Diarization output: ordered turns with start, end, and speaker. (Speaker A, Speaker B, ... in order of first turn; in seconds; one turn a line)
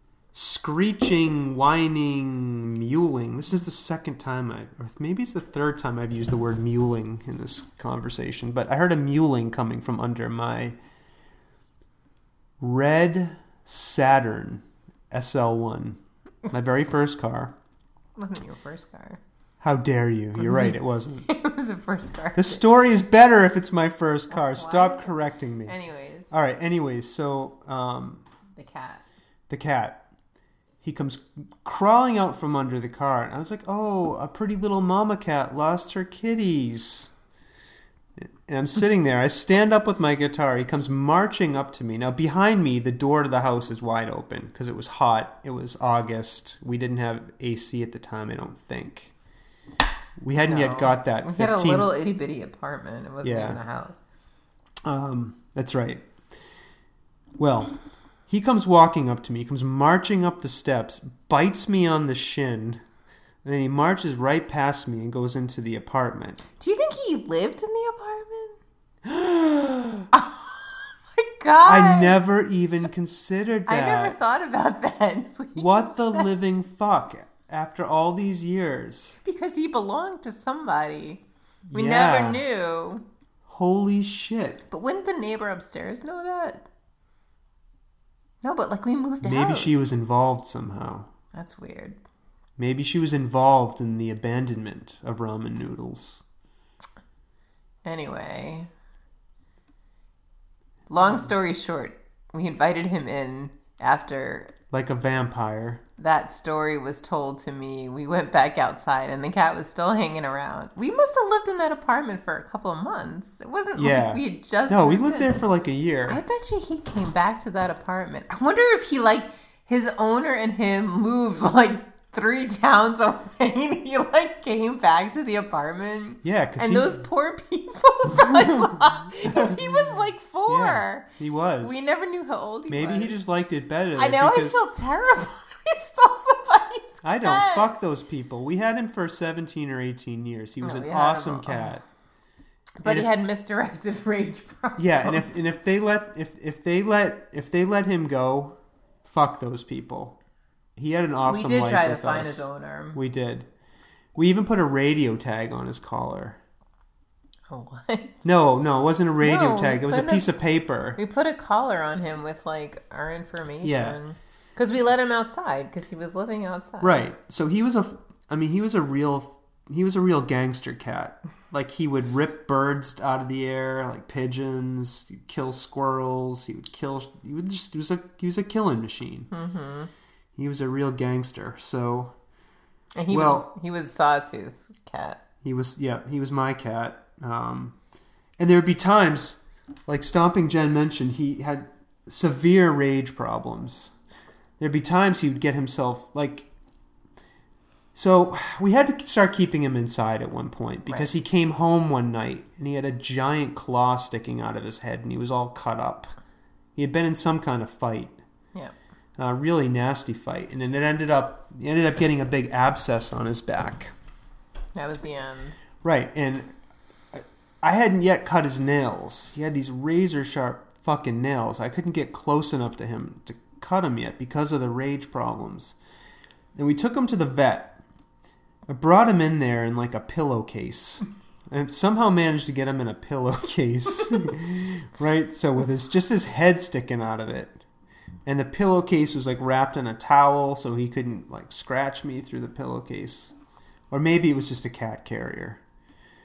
Speaker A: 0.3-10.8
Speaker A: 12.6-17.5
Speaker B: 18.1-19.2
Speaker A: 19.6-21.3
Speaker B: 20.4-22.6
Speaker A: 22.3-25.8
Speaker B: 24.3-25.1
Speaker B: 25.6-26.3
Speaker A: 26.3-28.2
Speaker B: 28.5-29.0
Speaker A: 29.5-30.1
Speaker A: 30.8-37.1
Speaker A: 38.2-49.1
Speaker A: 50.2-52.0
Speaker B: 50.5-54.0
Speaker A: 53.2-53.6
Speaker A: 54.8-56.0
Speaker A: 57.4-57.7
Speaker A: 58.3-62.8
Speaker A: 63.4-66.4
Speaker B: 66.6-68.6
Speaker A: 69.0-70.1
Speaker B: 70.1-72.2
Speaker A: 71.6-74.2
Speaker B: 73.7-76.3
Speaker A: 75.5-79.1
Speaker B: 79.2-83.0
Speaker A: 81.7-82.4
Speaker A: 83.5-84.6
Speaker B: 84.7-86.7
Speaker B: 88.4-89.7
Speaker A: 89.2-91.1
Speaker B: 91.3-92.0
Speaker A: 92.6-96.2
Speaker B: 97.8-98.7
Speaker B: 100.9-104.5
Speaker A: 104.7-105.8
Speaker B: 106.0-115.4
Speaker A: 113.8-116.2
Speaker B: 116.1-131.1
Speaker A: 126.2-127.0
Speaker A: 128.3-129.8
Speaker A: 130.5-131.8
Speaker B: 131.6-133.2
Speaker A: 132.7-134.6
Speaker B: 133.9-137.7
Speaker A: 137.0-141.8
Speaker B: 140.6-141.8
Speaker B: 142.8-145.4
Speaker A: 142.8-143.1
Speaker A: 144.8-150.2
Speaker A: 150.8-153.5
Speaker B: 151.2-153.0
Speaker A: 154.1-156.4
Speaker B: 157.5-158.2
Speaker A: 158.2-161.0
Speaker B: 159.2-160.3
Speaker B: 161.0-167.0
Speaker A: 163.6-164.0
Speaker A: 166.8-179.3
Speaker B: 179.3-179.9
Speaker A: 180.3-182.1
Speaker B: 182.9-185.2
Speaker A: 183.1-183.5
Speaker A: 185.4-187.8
Speaker A: 188.4-193.9
Speaker A: 194.6-196.5
Speaker A: 197.9-206.1
Speaker B: 200.9-201.1
Speaker A: 206.8-208.2
Speaker A: 209.2-213.9
Speaker B: 214.7-215.6
Speaker A: 215.8-216.5
Speaker A: 217.1-225.8
Speaker A: 226.5-227.8
Speaker A: 228.7-237.6
Speaker A: 238.2-243.3
Speaker A: 243.9-245.6